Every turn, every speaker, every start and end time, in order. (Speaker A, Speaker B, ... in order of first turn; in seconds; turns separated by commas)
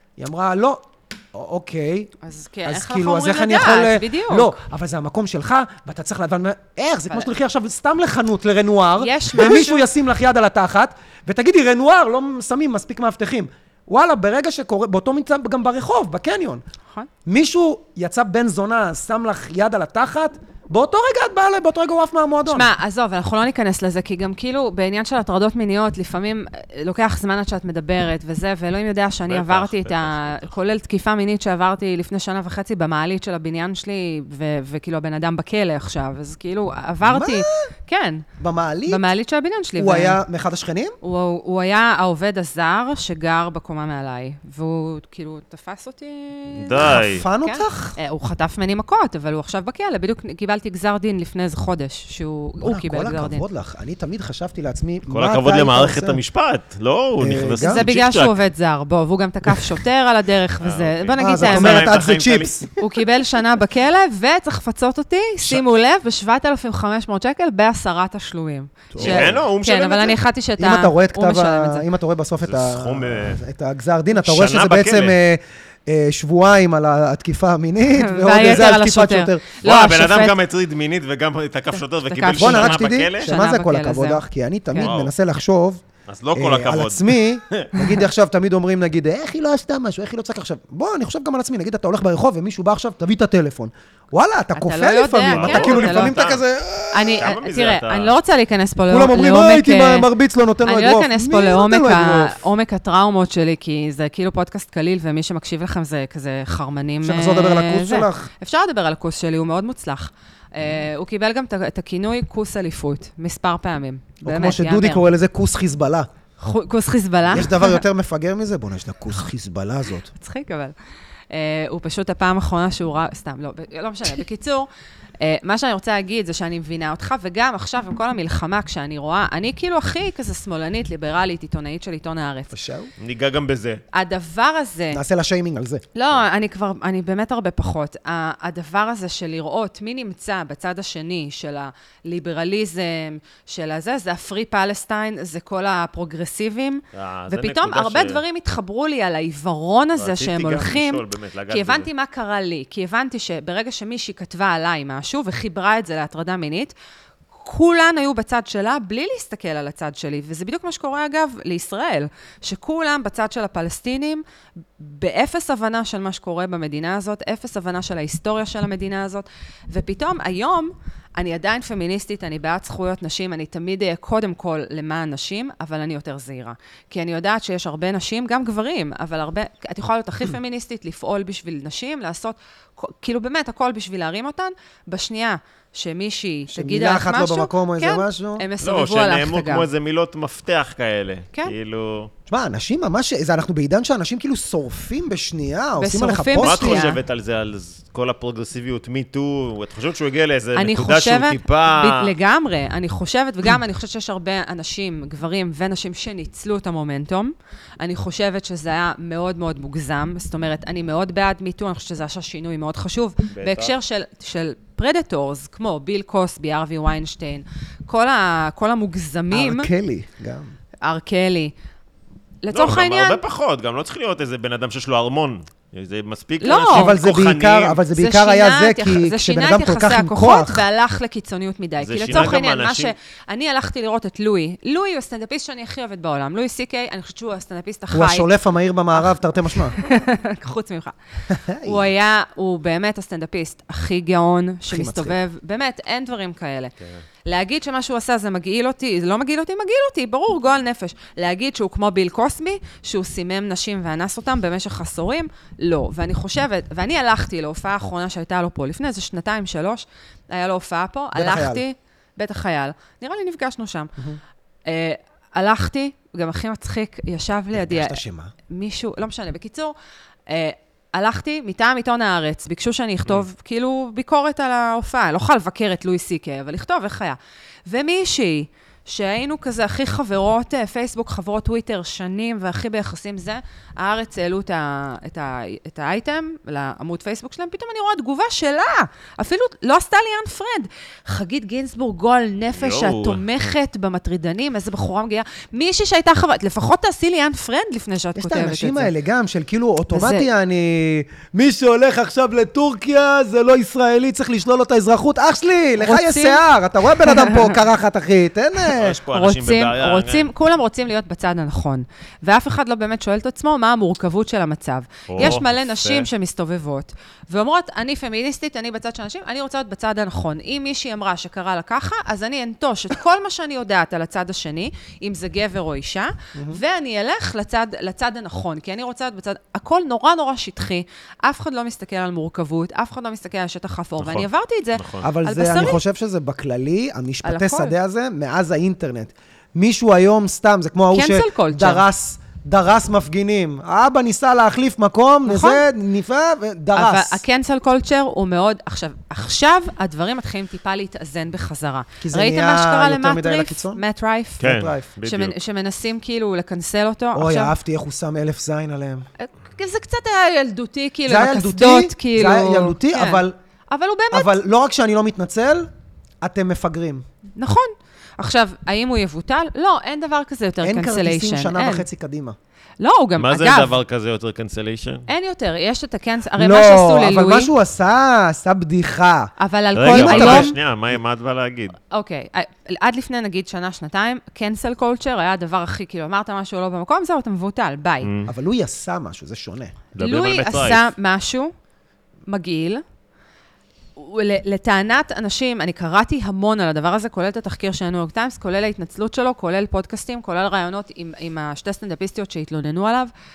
Speaker A: 0.2-2.1, Speaker B: 2.2-4.6, Speaker A: 2.6-16.6, Speaker B: 9.0-9.9, Speaker A: 17.2-22.7, Speaker B: 22.5-38.2, Speaker C: 29.3-30.5, Speaker A: 37.0-37.7, Speaker A: 38.4-39.1, Speaker B: 38.9-40.2, Speaker A: 39.8-41.0, Speaker B: 41.0-53.4, Speaker C: 46.6-47.2, Speaker A: 46.8-47.9, Speaker A: 52.6-56.2, Speaker C: 55.1-58.3, Speaker A: 57.2-57.8, Speaker B: 57.6-62.0, Speaker C: 60.6-62.6, Speaker A: 61.2-62.7, Speaker B: 62.8-71.8, Speaker A: 68.9-69.4, Speaker C: 69.0-70.2, Speaker A: 70.6-79.5, Speaker C: 72.4-73.4, Speaker C: 74.2-75.2, Speaker B: 77.9-80.3, Speaker C: 79.6-83.3, Speaker B: 81.7-84.9, Speaker A: 82.4-97.3, Speaker C: 84.8-85.1, Speaker C: 86.1-87.7, Speaker B: 94.5-96.2, Speaker C: 95.3-96.4, Speaker B: 96.9-100.1, Speaker C: 97.2-98.1, Speaker A: 98.9-102.4, Speaker B: 100.6-115.0, Speaker A: 107.0-108.3, Speaker A: 114.2-116.1, Speaker B: 116.4-117.8, Speaker A: 117.3-120.1, Speaker B: 120.1-120.7, Speaker B: 121.3-124.7, Speaker B: 125.2-132.5, Speaker A: 132.5-132.9, Speaker C: 133.0-133.8, Speaker B: 133.9-135.0, Speaker A: 134.9-135.8, Speaker B: 135.9-156.7, Speaker C: 146.9-148.2, Speaker C: 150.0-151.9, Speaker B: 157.4-164.2, Speaker B: 164.8-189.7, Speaker A: 186.5-188.5, Speaker C: 188.6-192.1, Speaker A: 192.3-196.9, Speaker B: 195.8-197.0, Speaker C: 196.4-202.1, Speaker B: 200.5-219.7, Speaker C: 213.3-213.7, Speaker A: 219.3-220.5, Speaker B: 220.8-221.5, Speaker B: 222.4-223.2, Speaker C: 222.5-227.8, Speaker B: 226.4-226.9, Speaker A: 226.7-230.6, Speaker B: 227.9-238.3, Speaker C: 231.8-232.9, Speaker A: 237.9-239.8, Speaker B: 238.9-240.9, Speaker A: 241.3-241.8, Speaker B: 241.6-246.7, Speaker A: 244.7-245.2, Speaker B: 247.2-264.0, Speaker A: 261.1-261.6, Speaker B: 264.6-269.7, Speaker A: 267.5-268.3, Speaker B: 270.3-298.9, Speaker C: 292.6-293.2, Speaker A: 298.1-309.0, Speaker B: 299.9-300.3, Speaker B: 305.8-306.4, Speaker B: 307.0-307.6, Speaker C: 308.7-310.3, Speaker B: 309.1-335.8, Speaker C: 315.1-316.1, Speaker A: 326.3-326.6, Speaker C: 334.0-335.1, Speaker A: 335.0-347.2, Speaker B: 337.2-337.7, Speaker B: 340.9-341.8, Speaker B: 345.2-345.6, Speaker B: 346.7-354.4, Speaker A: 352.0-353.8, Speaker A: 354.4-354.9, Speaker C: 354.4-355.3, Speaker B: 355.0-357.5, Speaker A: 357.1-359.1, Speaker B: 359.2-364.3, Speaker A: 361.1-363.3, Speaker A: 364.1-365.7, Speaker A: 366.2-367.0, Speaker B: 367.4-371.8, Speaker A: 370.6-372.4, Speaker B: 372.8-373.7, Speaker C: 373.2-375.1, Speaker B: 375.1-377.5, Speaker A: 376.4-379.3, Speaker B: 379.4-380.6, Speaker C: 379.8-381.8, Speaker A: 379.9-380.5, Speaker B: 381.9-388.1, Speaker C: 388.0-388.3, Speaker A: 388.3-389.8, Speaker C: 389.9-390.9, Speaker B: 390.0-391.5, Speaker B: 392.3-392.8, Speaker B: 394.0-403.1